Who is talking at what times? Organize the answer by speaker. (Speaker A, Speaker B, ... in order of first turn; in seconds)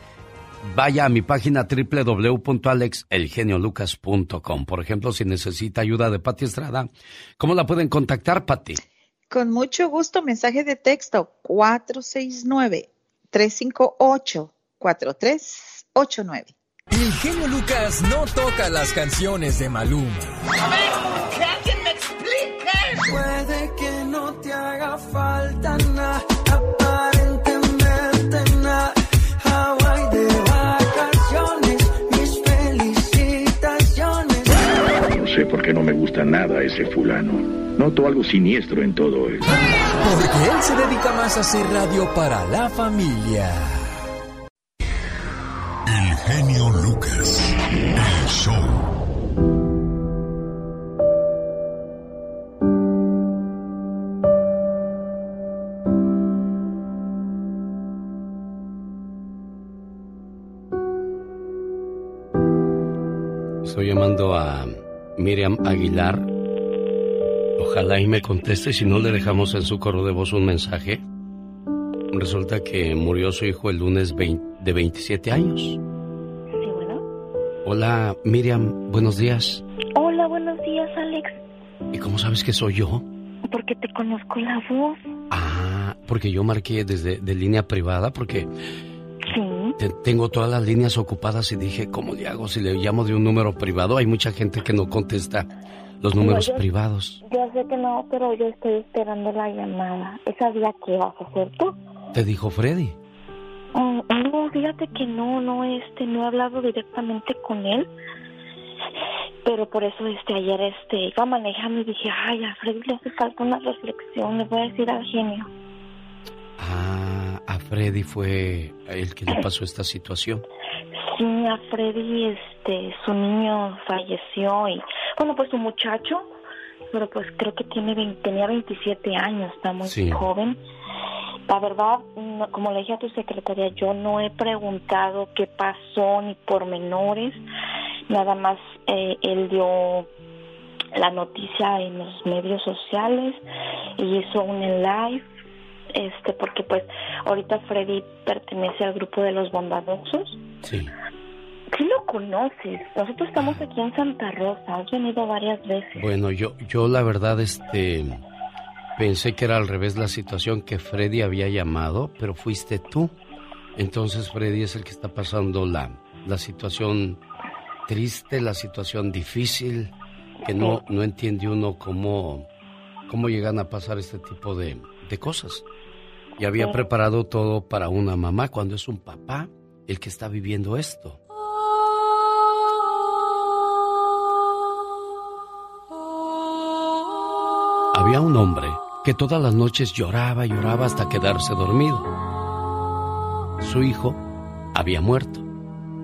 Speaker A: 0.6-8.8, 63.6-66.3, 67.6-71.0, 72.1-75.8, 77.6-79.6, 81.9-83.0, 85.3-88.5, 89.8-95.5, 96.0-97.2, 102.1-103.0, 116.6-120.4, 129.8-130.2, 150.6-150.9, 155.9-158.2, 159.0-163.1, 163.8-167.2, 167.9-169.9, 170.4-172.4, 173.1-175.6, 176.4-181.2, 187.9-192.1, 193.6-194.2, 194.7-195.4
Speaker B: 9.3-16.5
Speaker C: 16.9-20.3, 40.0-43.9
Speaker D: 23.0-34.4
Speaker E: 35.0-39.5
Speaker F: 45.9-48.8
Speaker G: 76.5-77.0, 79.9-81.3, 83.5-85.0, 89.3-89.8, 96.2-96.7, 97.2-101.8, 103.7-107.9, 109.4-115.5, 121.1-126.3, 126.9-130.6, 131.5-137.4, 138.1-140.1, 140.9-143.4, 144.0-145.2, 145.9-150.4, 151.7-156.1, 176.5-176.8